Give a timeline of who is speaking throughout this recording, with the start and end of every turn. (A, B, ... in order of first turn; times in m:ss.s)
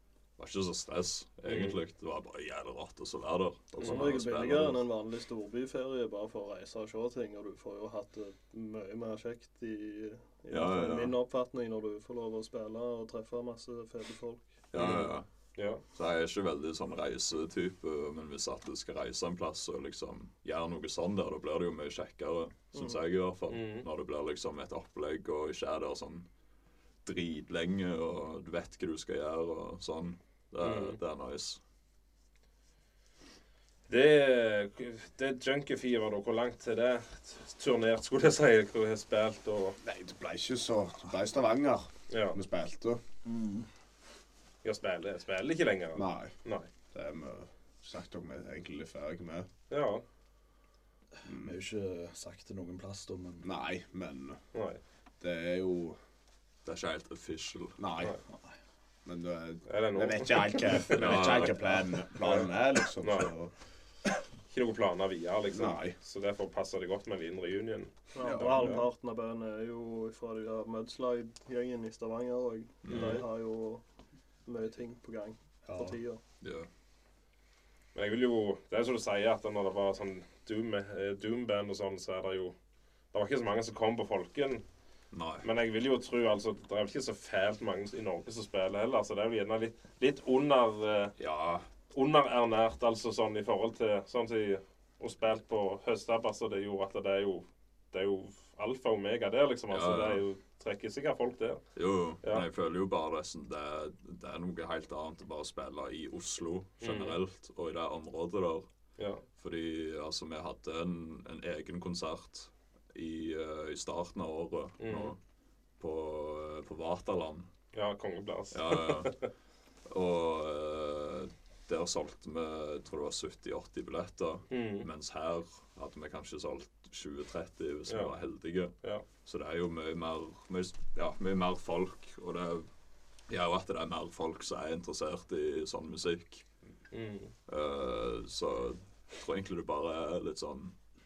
0:00.4-0:04.8 A
0:01.4-0:01.8 B
0:03.8-0:04.1 B
0:03.8-0:14.6 C
0:10.5-0:11.2 A
0:14.7-0:15.3 A
0:15.6-0:15.8 B
0:15.9-0:26.3 A
0:22.7-0:23.0 C
0:23.5-0:23.9 B
0:27.0-0:31.6 A
0:30.6-0:31.0 B
0:33.9-0:39.8 B
0:39.8-0:43.0 D
0:42.1-0:42.4 B
0:43.2-0:43.7 E
0:44.6-0:46.7 B
0:46.0-0:46.4 D
0:46.9-0:49.5 D
0:49.7-0:50.0 B
0:51.2-0:51.6 D
0:51.3-0:53.5 E
0:53.4-0:54.4 D
0:54.5-0:54.8 B
0:55.2-0:56.0 D
0:56.6-0:57.8 A
0:57.8-0:58.2 D
0:59.0-1:03.5 D
0:59.7-1:01.4 B
1:00.9-1:01.6 A
1:03.0-1:03.3 B
1:04.5-1:08.9 B
1:05.5-1:06.0 D
1:08.1-1:13.8 C
1:08.2-1:08.8 D
1:12.8-1:13.2 A
1:12.9-1:13.2 B
1:14.5-1:16.2 C
1:15.6-1:16.0 E
1:16.4-1:16.7 A
1:17.9-1:22.6 B
1:23.1-1:24.6 B
1:25.1-1:25.5 A
1:25.4-1:31.1 B
1:31.2-1:31.7 A
1:31.9-1:41.6 B
1:39.7-1:40.2 A
1:41.8-1:48.7 A
1:46.8-1:47.2 B
1:49.0-1:49.2 B
1:49.4-1:55.2 A
1:54.8-1:55.2 B
1:55.8-1:57.5 A
1:57.7-1:59.3 B
1:58.5-1:59.2 A
1:59.9-2:12.7 A
2:04.5-2:04.9 B
2:07.9-2:08.1 B
2:13.3-2:16.4 A
2:16.9-2:17.3 B
2:17.5-2:20.7 A